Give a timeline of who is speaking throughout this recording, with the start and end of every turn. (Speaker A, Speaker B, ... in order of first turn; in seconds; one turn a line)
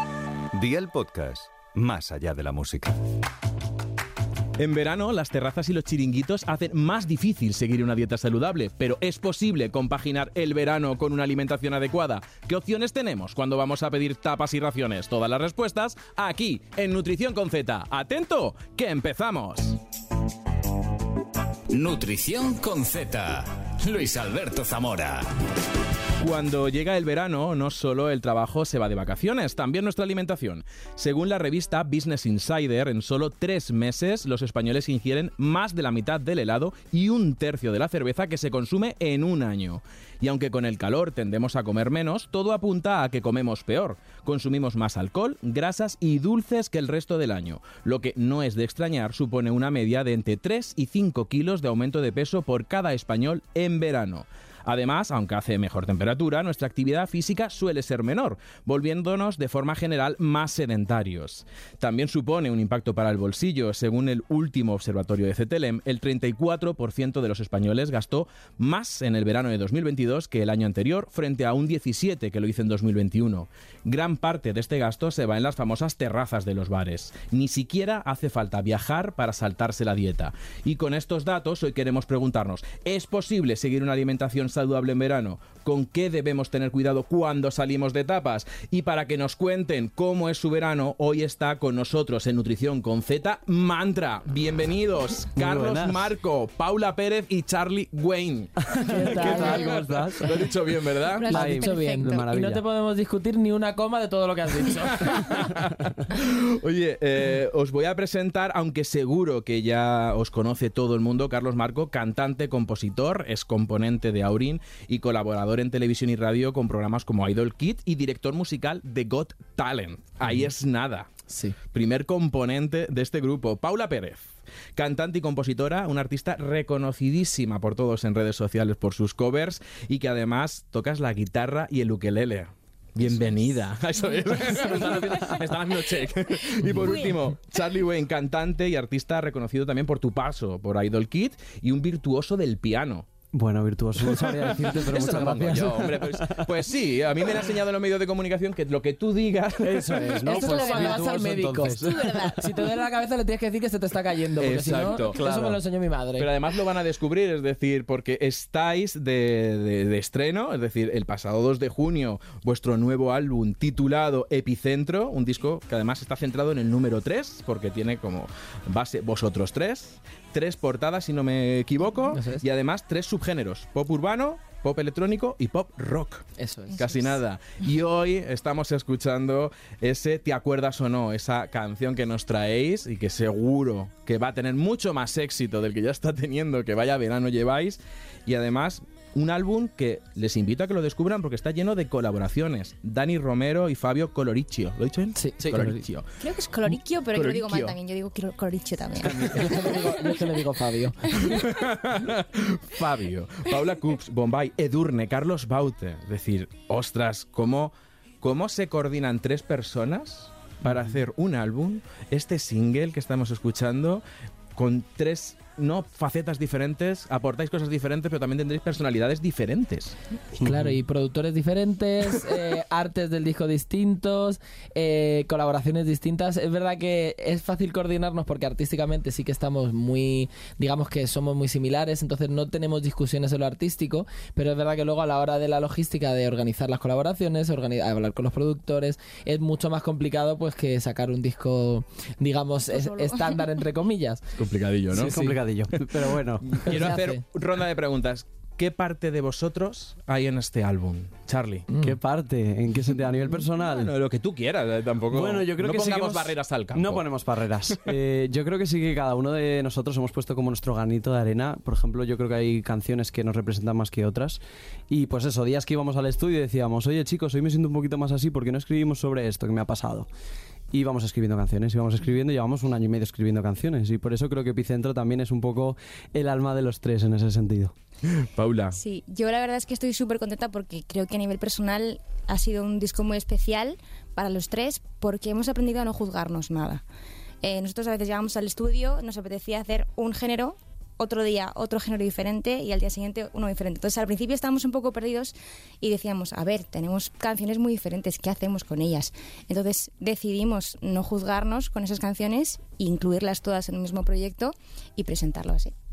Speaker A: 0.5-2.9
Speaker B: 4.6-19.8
Speaker C: 21.7-25.3
Speaker B: 26.2-101.3
Speaker D: 95.3-96.1
Speaker E: 98.8-99.7
Speaker D: 99.0-100.4
Speaker F: 99.3-99.5
Speaker F: 101.0-102.3
Speaker D: 101.3-102.6
Speaker E: 101.3-105.4
Speaker B: 105.1-121.1
Speaker E: 121.3-121.5
Speaker B: 121.7-143.1
Speaker F: 134.0-135.4
Speaker F: 136.7-137.1
Speaker D: 143.3-146.5
Speaker B: 144.2-150.2
Speaker D: 149.6-152.4
Speaker F: 150.2-151.2
Speaker E: 150.3-151.8
Speaker F: 151.7-152.7
Speaker E: 152.3-156.3
Speaker B: 154.4-155.2
Speaker D: 154.8-155.6
Speaker B: 156.2-176.3
Speaker E: 172.1-172.4
Speaker E: 176.4-176.8
Speaker F: 176.8-177.1
Speaker B: 176.8-196.1
Speaker E: 195.2-195.7
Speaker D: 195.4-195.8
Speaker F: 196.2-200.3
Speaker B: 197.1-197.8
Speaker E: 199.3-201.0
Speaker F: 201.0-201.6
Speaker B: 201.2-214.0
Speaker B: 214.6-219.9
Speaker D: 220.4-220.7
Speaker E: 220.4-244.2
Speaker F: 242.7-243.4
Speaker B: 244.4-245.8
Speaker D: 244.9-246.9
Speaker E: 244.9-245.4
Speaker B: 246.5-251.7
Speaker E: 246.6-247.2
Speaker E: 251.7-252.0
Speaker D: 251.8-253.9
Speaker B: 253.3-257.1
Speaker D: 255.1-270.1
Speaker D: 270.7-277.7
Speaker B: 278.1-278.8
Speaker F: 278.7-286.8
Speaker F: 287.4-305.7